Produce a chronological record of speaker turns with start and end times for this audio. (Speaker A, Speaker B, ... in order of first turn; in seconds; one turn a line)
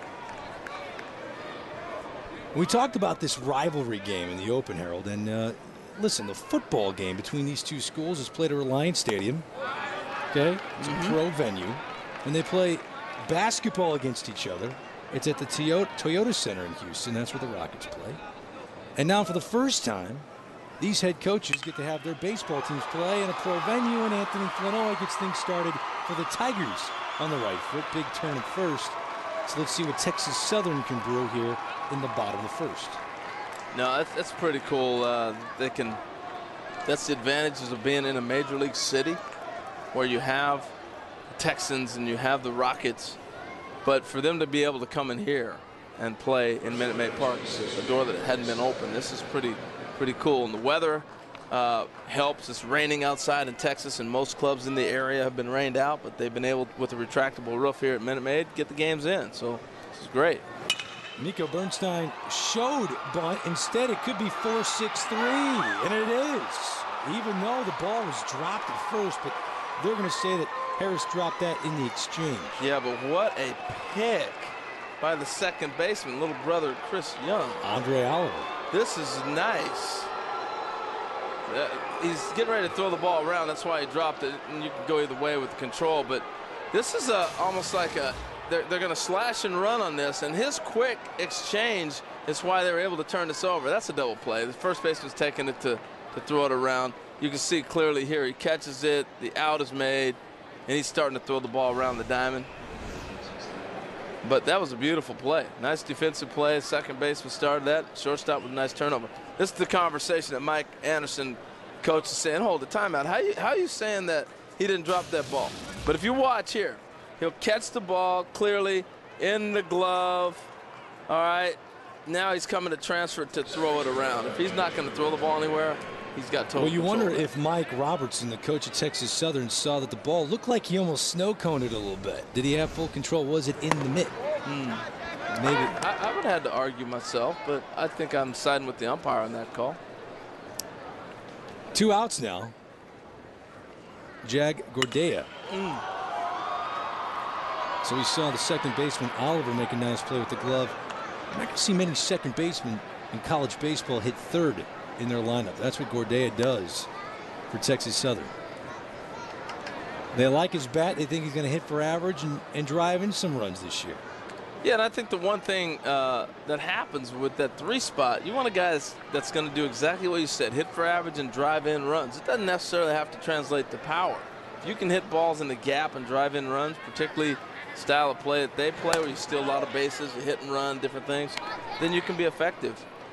Speaker A: 2.5-9.5
Speaker A: 10.3-18.2
Speaker B: 10.8-11.2
Speaker A: 19.0-20.3
Speaker A: 20.8-33.0
Speaker B: 33.7-36.0
Speaker B: 36.9-39.2
Speaker B: 39.9-40.7
Speaker B: 41.3-43.2
Speaker B: 43.8-60.4
Speaker A: 61.2-72.6
Speaker B: 72.6-77.6
Speaker A: 77.6-78.5
Speaker B: 78.7-80.1
Speaker B: 81.5-102.5
Speaker B: 104.2-120.5
Speaker B: 121.1-127.3
Speaker A: 126.6-134.2
Speaker B: 134.4-134.9
Speaker A: 135.3-135.8
Speaker B: 135.7-139.8
Speaker A: 141.7-142.6
Speaker A: 144.2-145.3
Speaker B: 145.5-145.8
Speaker A: 147.8-150.8
Speaker A: 151.3-156.9
Speaker A: 157.5-158.3
Speaker A: 160.1-164.0
Speaker B: 164.6-182.9